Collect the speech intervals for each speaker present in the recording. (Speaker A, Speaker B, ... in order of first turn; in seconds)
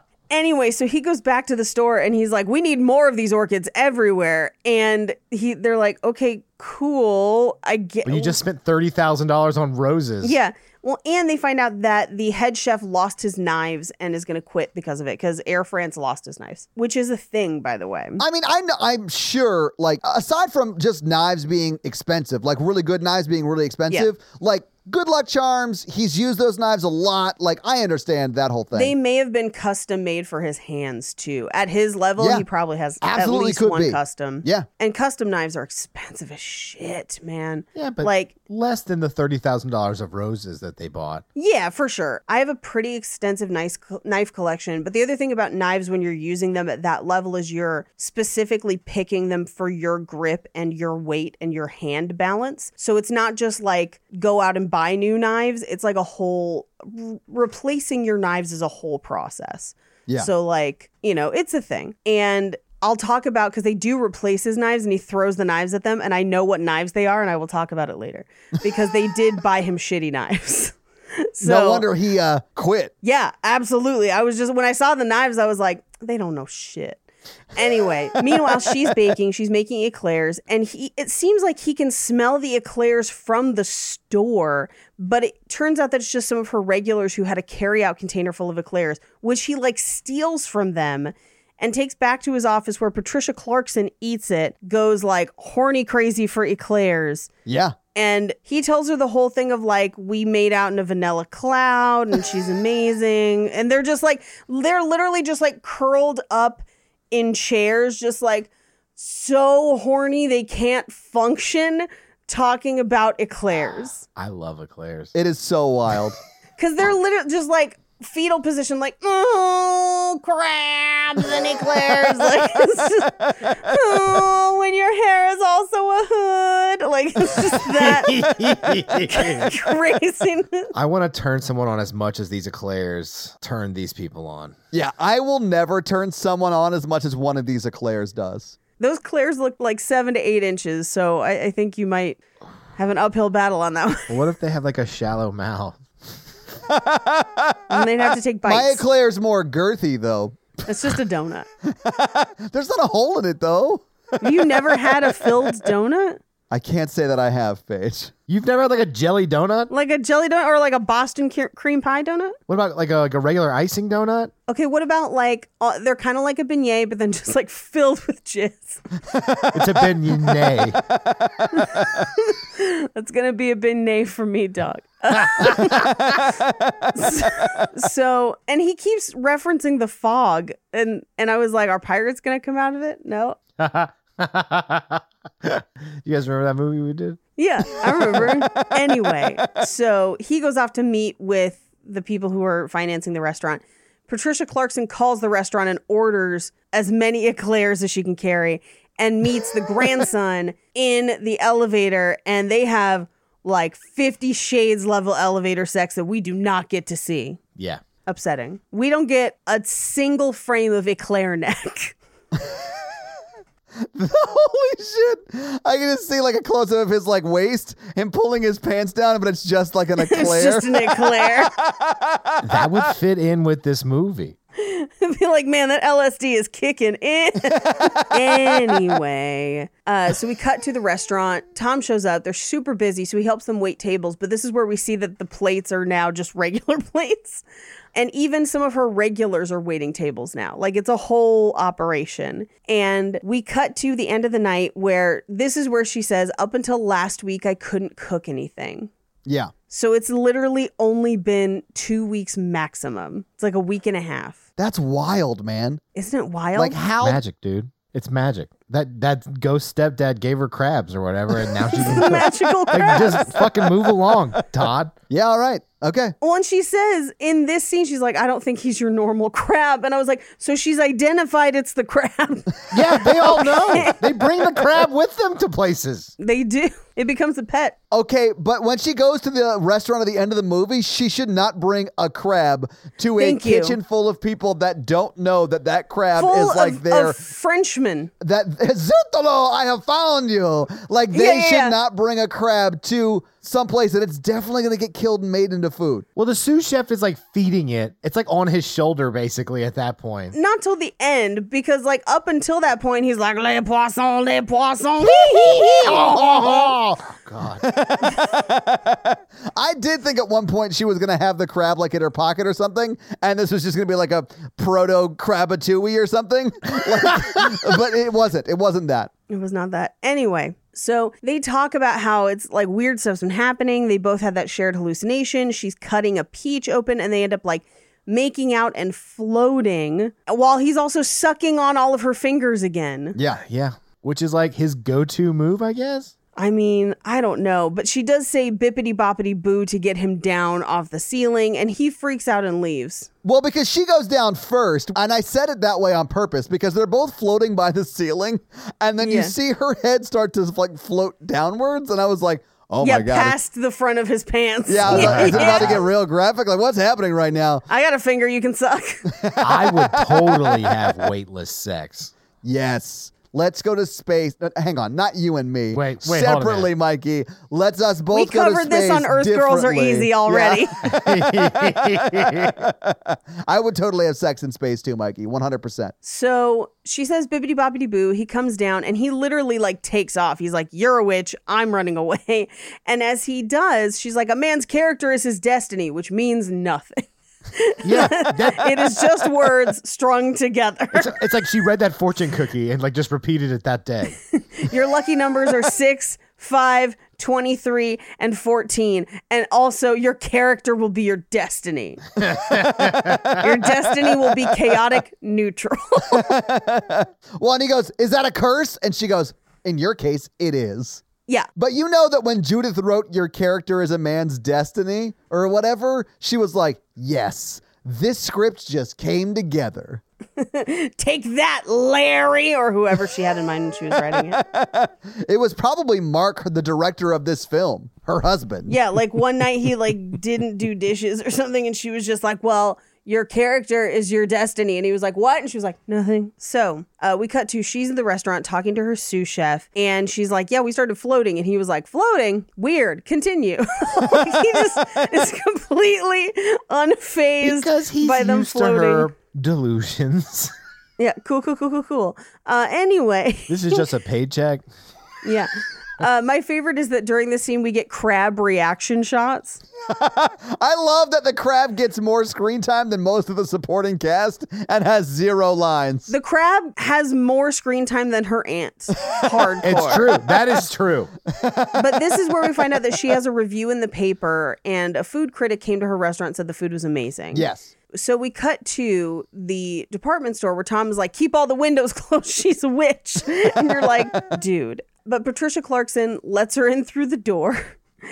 Speaker A: 0.3-8.4, 10.2-18.2, 28.7-38.3, 41.4-71.8, 73.0-77.0, 77.5-97.3, 98.0-114.0, 116.6-130.7, 138.8-142.2, 142.8-144.2, 147.7-148.8, 150.7-151.5, 154.2-156.2, 159.7-162.4, 164.5-168.8, 171.6-176.2, 176.9-183.4, 187.4-207.4, 208.1-212.0, 220.0-221.5, 224.6-248.9, 249.7-254.4, 255.9-256.8, 261.8-263.5, 266.2-274.5, 276.2-277.8, 283.2-283.8, 286.2-288.1, 291.1-291.8, 300.3-306.2, 319.3-333.2, 336.4-343.1, 349.0-349.3, 352.8-355.8, 357.7-359.1, 368.1-370.8, 376.0-391.2, 394.4-402.0, 403.4-406.3, 420.4-424.4, 428.7-449.1, 451.0-453.9, 455.2-459.6, 466.1-470.1, 471.8-487.8
Speaker B: 8.1-10.4, 37.8-41.2, 114.2-115.1, 127.8-129.7, 130.7-134.6, 144.1-145.8, 158.3-159.7, 162.5-164.3, 169.5-170.8, 175.4-175.7, 183.6-187.2, 187.8-188.3, 222.4-224.4, 257.0-264.9, 272.7-276.1, 296.2-300.4, 305.0-307.7, 333.4-336.1, 354.9-355.8, 359.4-362.1, 365.7-366.7, 370.9-372.6, 387.8-389.1, 390.9-394.2, 402.5-403.3, 447.4-450.5, 453.5-454.6, 469.6-471.1
Speaker C: 18.2-28.9, 32.2-32.5, 33.0-34.7, 71.4-72.9, 97.5-97.8, 115.1-116.2, 134.7-138.6, 146.7-147.8, 148.4-150.4, 151.7-154.7, 156.5-158.1, 169.2-169.6, 171.6-171.9, 176.5-176.9, 213.8-222.8, 227.7-228.6, 249.3-249.5, 254.6-255.8, 256.6-257.2, 264.5-266.1, 277.9-287.2, 288.2-296.1, 305.8-306.7, 307.6-319.1, 333.2-333.4, 343.2-353.4, 354.7-357.7, 359.1-360.8, 362.4-375.9, 402.4-403.4, 406.1-411.0, 411.6-420.0, 424.1-428.8, 459.9-466.1, 471.4-471.8, 477.3-477.7